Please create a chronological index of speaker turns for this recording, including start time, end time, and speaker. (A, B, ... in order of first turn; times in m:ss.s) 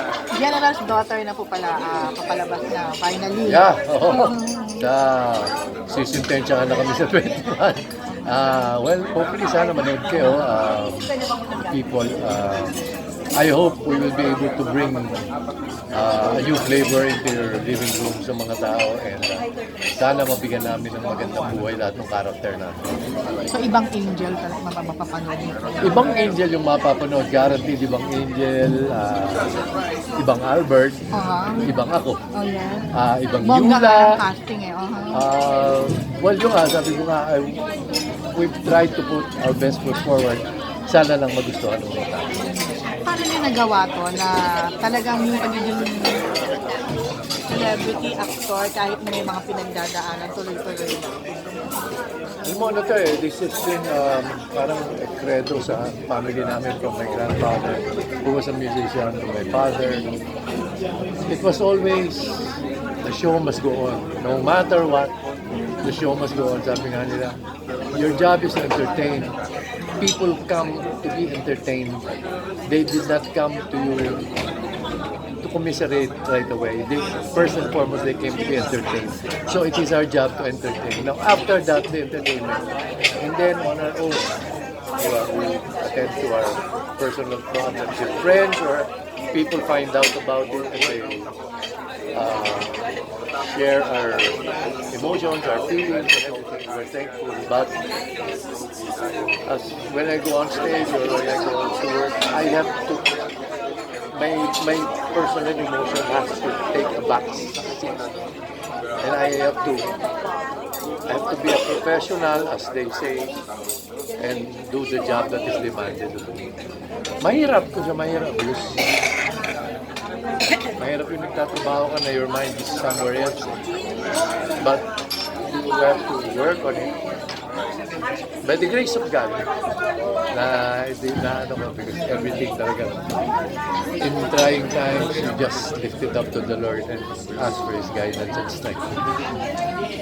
0:00.3-0:04.9 A
0:03.5-0:11.1 B
0:11.7-0:12.8 B
0:13.4-0:15.2 B
0:15.9-0:19.4 B
0:20.0-0:22.9 B
0:23.5-0:25.8 A
0:25.8-0:29.5 B
0:30.2-0:31.0 B
0:31.1-0:31.7 A
0:31.6-0:32.2 B
0:32.3-0:35.2 A
0:32.9-0:34.1 B
0:35.1-0:37.6 B
0:38.4-0:42.4 B
0:42.4-0:46.2 A
0:47.5-0:51.1 A
0:52.4-1:00.0 B
1:01.3-1:05.1 B
1:05.8-1:07.4 B
1:07.9-1:09.4 B
1:10.0-1:12.0 B
1:12.7-1:14.3 B
1:15.4-1:22.6 B
1:23.2-1:24.3 B
1:25.0-1:31.3 B
1:32.1-1:32.8 B
1:33.4-1:34.4 B
1:34.9-1:37.7 B
1:39.5-1:43.0 B
1:44.1-1:48.0 B
1:49.0-1:49.9 B
1:51.1-1:53.4 B
1:54.2-1:56.5 B
1:57.2-1:58.8 B
2:00.8-2:03.6 B
2:04.6-2:04.8 B
2:05.4-2:06.9 B
2:08.4-2:09.5 B
2:10.3-2:13.0 B
2:14.0-2:18.8 B